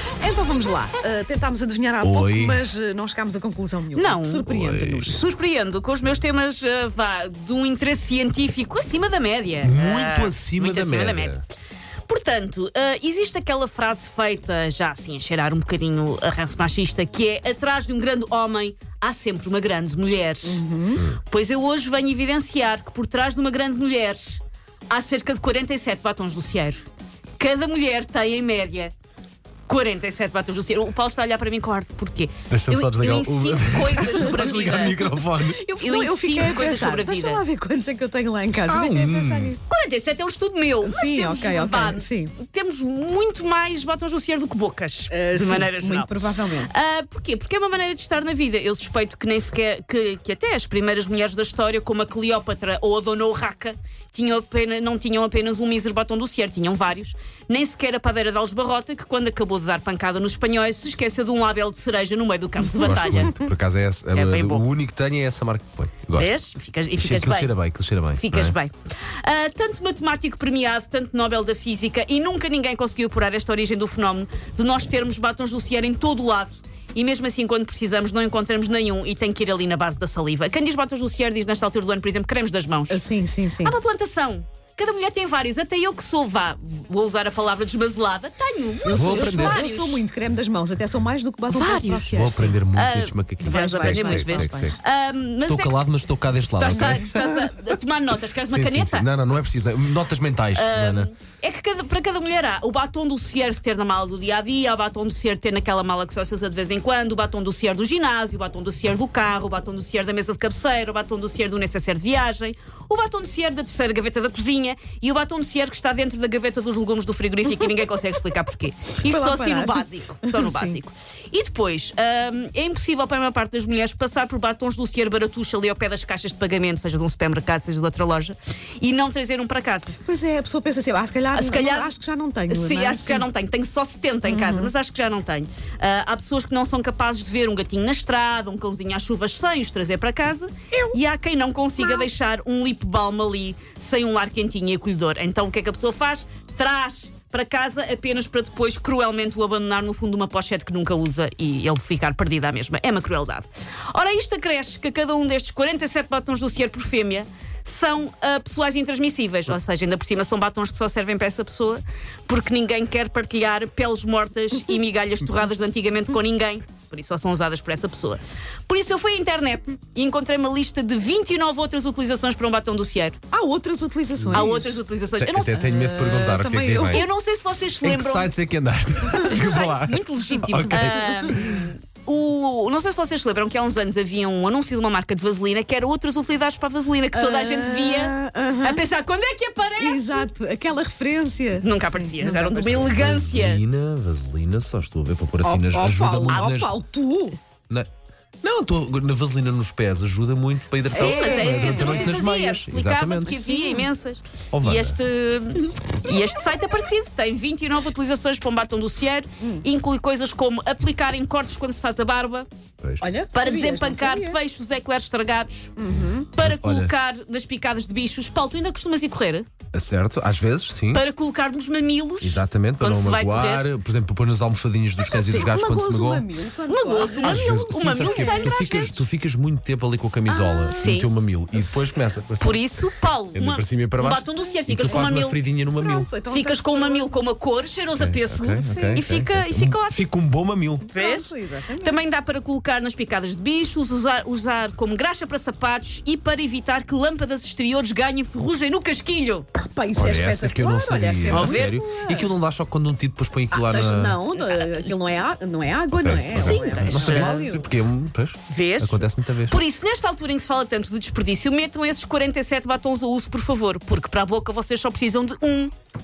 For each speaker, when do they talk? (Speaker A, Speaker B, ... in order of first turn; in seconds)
Speaker A: 0.2-5.2, 20.4-21.1, 35.0-39.6, 40.8-42.3, 45.1-46.7, 82.9-83.8, 88.8-92.6, 93.4-94.8, 96.9-97.2, 119.0-120.8, 130.0-133.3, 134.2-134.7, 173.3-174.8, 175.5-177.1, 180.7-181.2, 187.1-188.8, 189.8-192.9, 195.4-197.4, 200.9-202.2, 203.5-203.9, 213.0-214.4, 215.8-216.3, 225.1-228.6, 234.4-235.2, 235.8-237.2, 238.6-239.1, 240.9-242.0, 249.6-252.3, 253.5-257.7
Speaker B: 2.0-2.6, 4.5-5.1, 9.6-11.4, 32.5-35.6, 38.7-39.5, 62.8-66.4, 67.0-68.6, 88.9-89.7, 92.1-94.8, 95.4-97.1, 98.5-101.1, 174.2-174.5, 175.2-177.1, 177.8-181.7, 192.8-196.8, 198.4-203.5, 204.5-205.0, 212.8-213.1, 215.8-216.9, 219.7-221.0, 222.2-226.3, 227.2-232.7, 233.3-236.1, 238.0-240.9, 249.9-254.2, 255.9-259.6
Speaker C: 3.9-4.5, 5.0-11.4, 12.1-26.9, 27.4-28.9, 29.7-35.1, 35.8-37.4, 39.7-63.4, 64.1-64.7, 66.2-67.6, 68.2-83.1, 83.6-90.0, 91.5-95.8, 96.5-99.1, 100.5-130.0, 131.3-131.9, 132.5-173.2, 174.3-175.6, 176.9-178.3, 179.2-190.3, 191.6-193.6, 196.3-196.6, 200.9-212.5, 213.3-215.8, 216.3-219.5, 220.9-223.7, 225.1-225.6, 226.7-229.0, 230.4-231.1, 232.4-235.4, 236.3-240.1, 240.9-249.5, 251.3-251.8, 256.3-257.4, 258.5-265.7